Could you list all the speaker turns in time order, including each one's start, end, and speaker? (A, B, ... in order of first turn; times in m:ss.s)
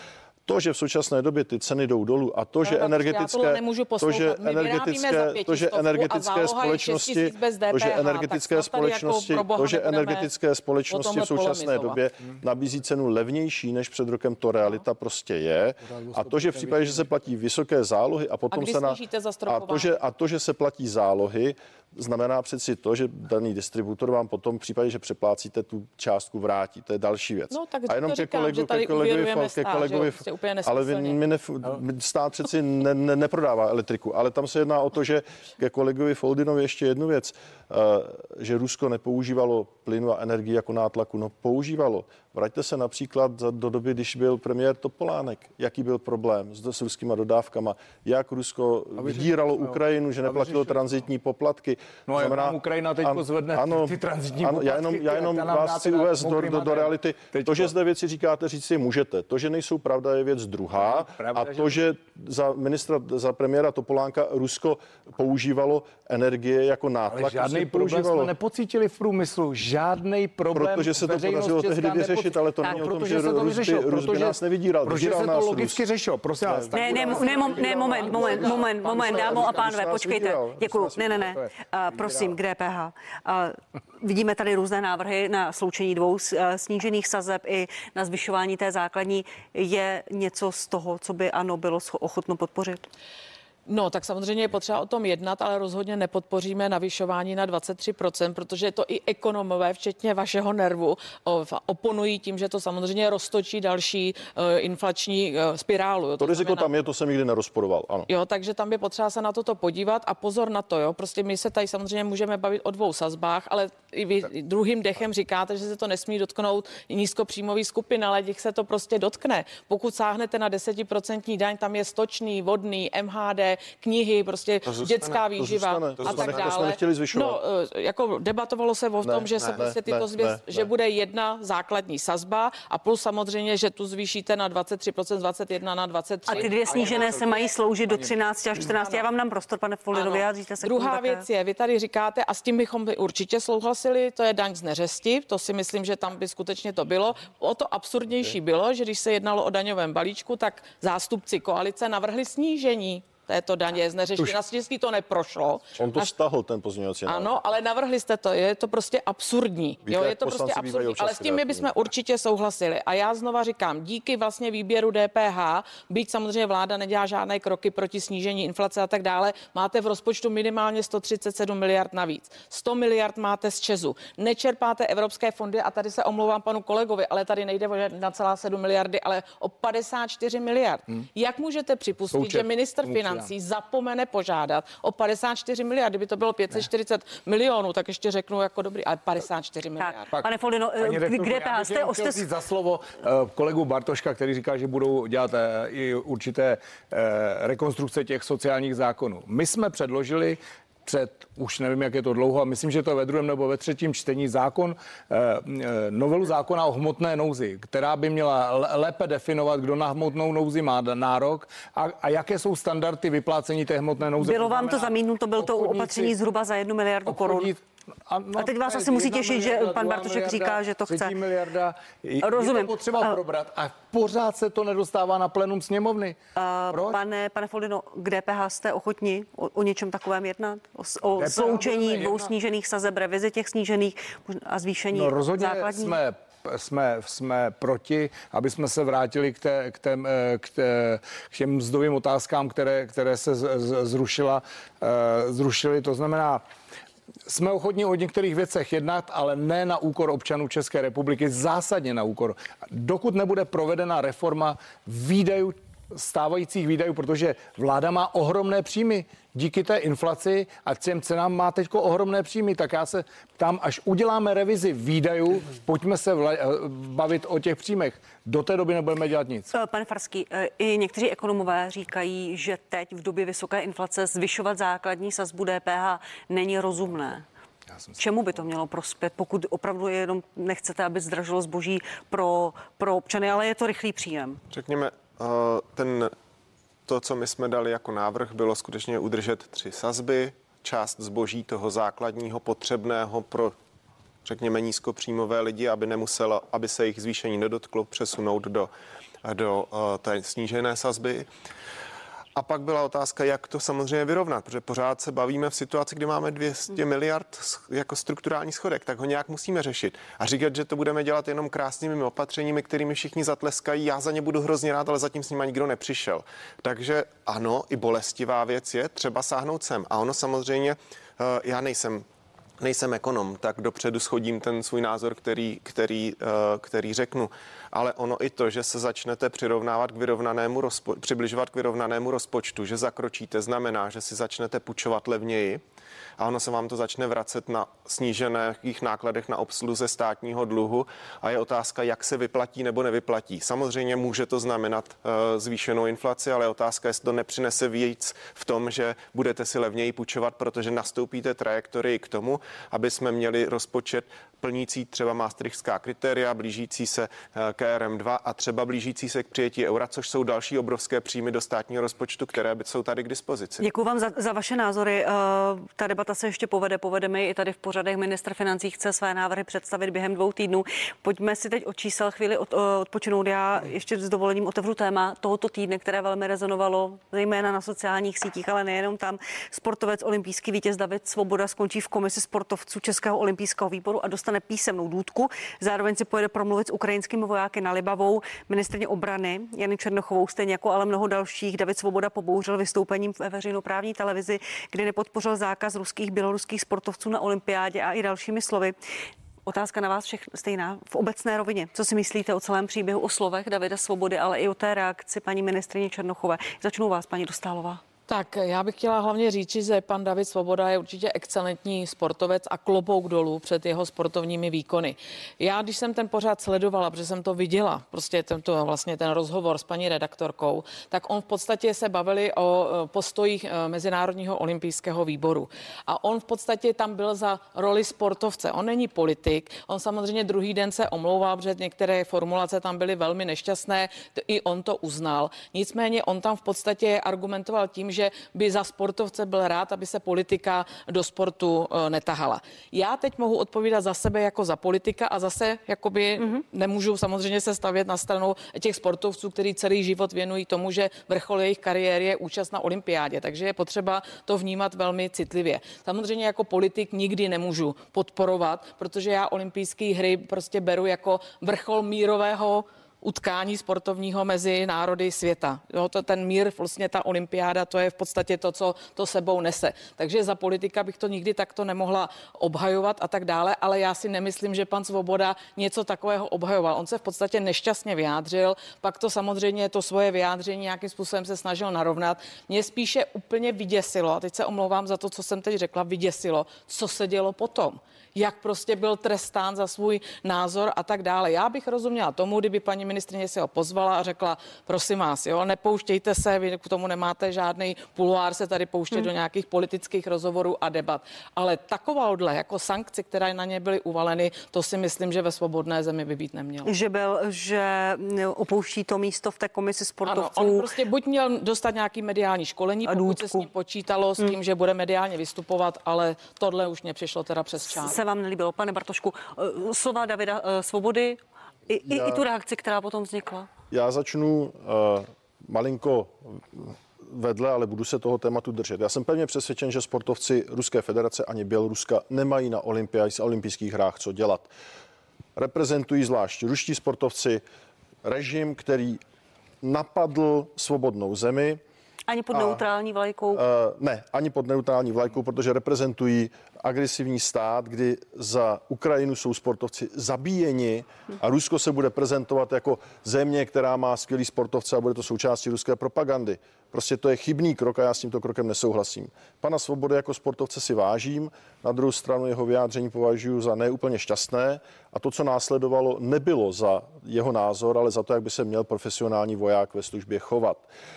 0:00.5-1:08.3 A
0:02.6-0:10.3 B
0:10.9-0:12.0 B
0:15.8-0:17.1 C
0:18.5-0:19.9 B
0:27.5-0:31.2 B
0:49.0-0:50.8 C
0:52.1-0:57.7 C
1:00.8-1:01.8 C
1:07.1-1:19.8 C
1:10.5-1:15.8 A
1:16.4-1:21.4 A
1:16.7-1:32.9 D
1:33.7-1:46.7 B
1:46.2-1:48.1 A
1:48.1-2:17.5 B
2:05.3-2:07.4 A
2:06.0-2:06.3 E
2:09.0-2:10.7 A
2:16.3-2:21.2 D
2:16.4-2:18.2 C
2:19.9-2:36.1 B
2:35.8-2:37.3 A
2:37.1-3:10.1 B
2:39.8-2:41.7 A
3:02.1-3:03.3 C
3:09.8-3:12.3 D
3:10.8-3:36.2 C
3:34.2-3:37.5 D
3:37.1-3:46.2 C
3:38.4-3:41.2 D
3:42.2-3:43.2 D
3:46.4-3:56.0 D
3:46.7-3:47.0 C
3:51.2-3:52.3 C
3:54.9-4:06.4 C
4:07.3-4:29.5 C
4:29.5-4:37.2 D
4:38.0-4:44.4 D
4:44.5-4:46.1 E
4:46.9-4:53.6 E
4:54.2-4:58.7 E
4:59.2-5:01.3 E
5:02.4-5:22.0 E
5:22.6-5:35.6 E
5:36.2-6:03.7 E
6:03.6-6:38.8 D
6:39.5-6:47.8 D
6:48.1-8:26.7 B
8:26.6-8:30.7 D
8:30.1-8:38.0 B
8:32.9-8:33.5 D
8:37.7-8:43.5 D
8:41.8-8:42.2 A
8:43.7-8:54.5 A
8:55.4-8:57.4 A
8:58.0-8:59.0 A
8:59.6-9:01.6 A
9:02.1-9:03.4 D
9:02.3-9:02.6 A
9:03.3-9:30.7 A